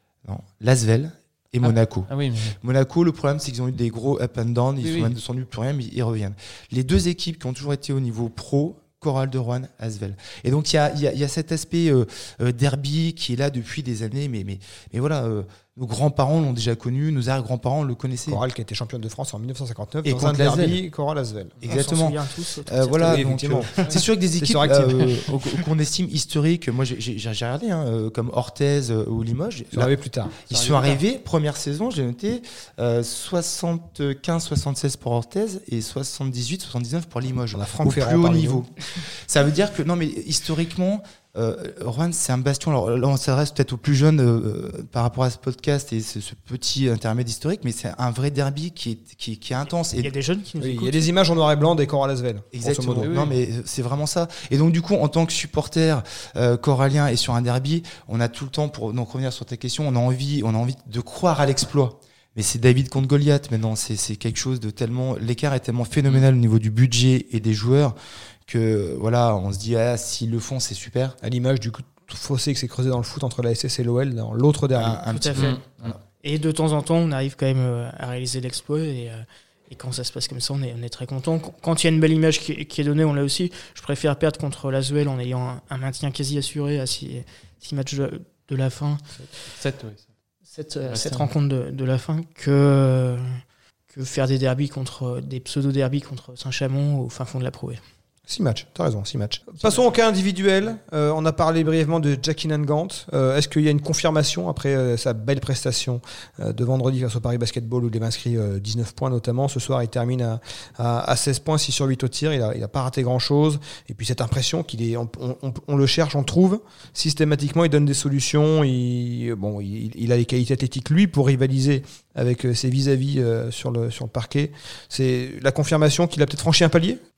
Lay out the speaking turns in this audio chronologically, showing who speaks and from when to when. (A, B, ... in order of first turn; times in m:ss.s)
0:00.2-0:18.4 A
0:01.6-0:02.6 B
0:04.8-0:05.2 B
0:18.3-0:21.6 C
0:20.0-0:20.8 A
0:21.6-0:29.9 A
0:21.7-0:23.3 D
0:23.0-0:23.8 C
0:24.4-0:25.2 C
0:29.7-0:30.4 C
0:30.4-0:50.1 A
0:30.5-0:31.0 B
0:37.5-0:38.6 C
0:50.0-0:51.1 D
0:50.6-0:53.1 C
0:52.5-1:08.0 A
0:53.0-0:53.4 B
1:08.5-1:11.2 A
1:11.2-1:15.1 C
1:14.7-1:16.0 A
1:15.1-1:15.6 D
1:15.4-1:16.0 B
1:16.2-1:29.0 D
1:29.5-1:30.1 B
1:30.5-1:33.4 D
1:30.9-1:31.3 B
1:33.9-1:37.8 D
1:38.3-2:07.0 C